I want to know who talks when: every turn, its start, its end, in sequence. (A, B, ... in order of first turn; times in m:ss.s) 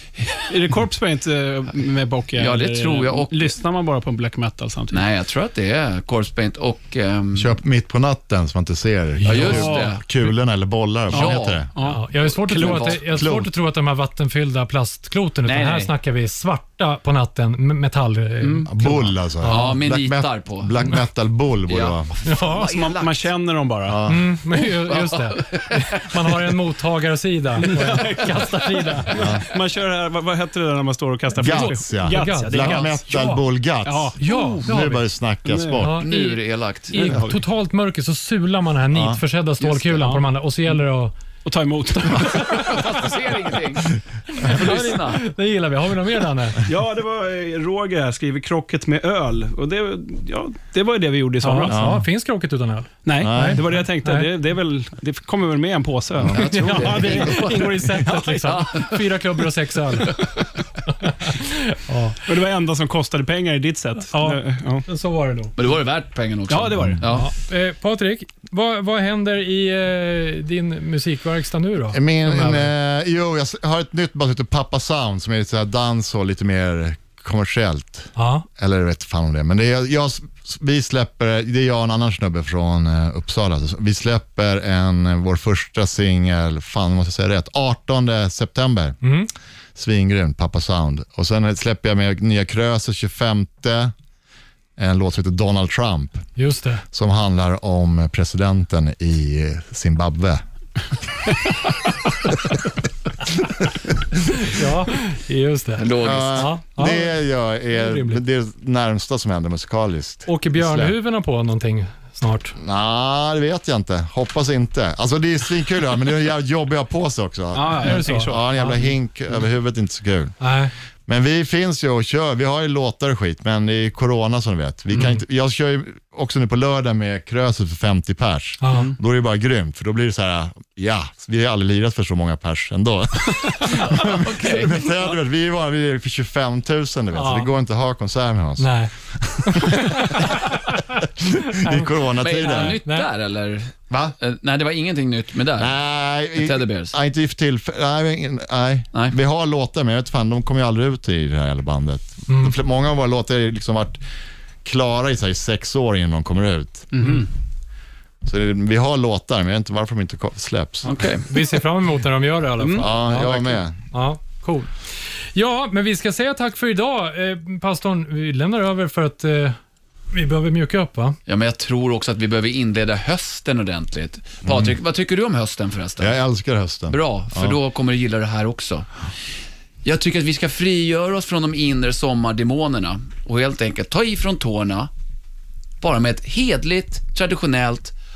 0:00.3-0:05.0 A
0:02.4-0:03.5 B
0:04.9-0:07.6 B
0:07.3-0:11.7 C
0:09.2-0:09.7 D
0:09.2-0:10.0 B
0:09.5-0:09.9 A
0:11.1-0:13.2 B
0:11.1-0:12.8 A
0:11.8-0:19.8 D
0:12.8-0:13.5 C
0:15.4-0:15.9 B
0:18.4-0:18.7 A
0:18.7-0:22.1 C
0:19.5-0:20.8 B
0:21.7-0:23.3 B
0:22.2-0:22.7 D
0:22.6-0:24.1 A
0:23.8-0:24.3 C
0:24.1-0:29.3 D
0:24.5-0:26.3 B
0:27.6-0:33.2 A
0:29.1-0:29.4 C
0:31.4-0:36.0 C
0:31.4-0:33.4 D
0:33.8-0:34.8 A
0:34.2-0:35.1 D
0:35.5-0:35.8 A
0:35.8-0:36.4 D
0:36.0-0:37.2 B
0:36.9-0:41.1 D
0:36.9-0:37.4 A
0:38.9-0:39.2 C
0:39.6-0:40.2 A
0:41.4-0:43.1 A
0:42.3-0:45.2 B
0:42.3-0:42.8 D
0:44.4-0:46.6 D
0:46.6-0:51.8 A
0:51.4-0:54.3 D
0:51.7-0:52.0 C
0:53.0-0:57.6 A
0:53.2-0:53.7 C
0:56.2-0:57.4 C
0:56.3-1:00.2 D
0:56.4-0:59.1 B
1:00.9-1:02.2 D
1:02.3-1:04.9 A
1:04.1-1:05.5 D
1:05.6-1:07.3 B
1:06.5-1:07.0 A
1:07.0-1:12.7 D
1:11.9-1:29.0 C
1:18.2-1:18.5 D
1:29.0-1:29.3 D
1:29.8-1:33.9 C
1:34.8-1:36.3 C
1:36.4-1:36.8 D
1:36.9-1:40.4 C
1:44.3-1:47.2 D
1:45.8-1:46.5 B
1:46.0-1:51.0 C
1:47.7-1:48.2 D
1:50.3-1:52.6 D
1:52.6-2:00.4 C
1:57.5-1:58.8 A
1:57.8-1:58.4 D
2:00.4-2:00.7 D
2:01.1-2:20.3 C
2:08.6-2:08.9 D
2:13.7-2:15.0 B
2:17.1-2:17.5 D
2:18.6-2:18.9 D
2:19.4-2:21.9 D
2:21.2-2:22.8 C
2:22.2-2:25.7 B
2:22.5-2:23.1 D
2:23.9-2:24.2 C
2:25.6-2:34.0 C
2:26.4-2:27.0 B
2:32.3-2:32.6 D
2:34.6-2:37.1 C
2:36.9-2:37.3 A
2:38.2-2:41.0 C
2:40.8-2:41.3 B
2:41.3-2:44.7 D
2:42.6-2:42.9 A
2:42.8-2:43.8 C
2:45.3-2:49.6 D
2:50.1-2:51.2 D
2:51.3-2:56.1 B
2:54.4-2:54.7 C
2:56.0-2:57.6 C
2:56.9-2:58.9 B
2:59.8-3:04.9 B
3:05.8-3:07.9 B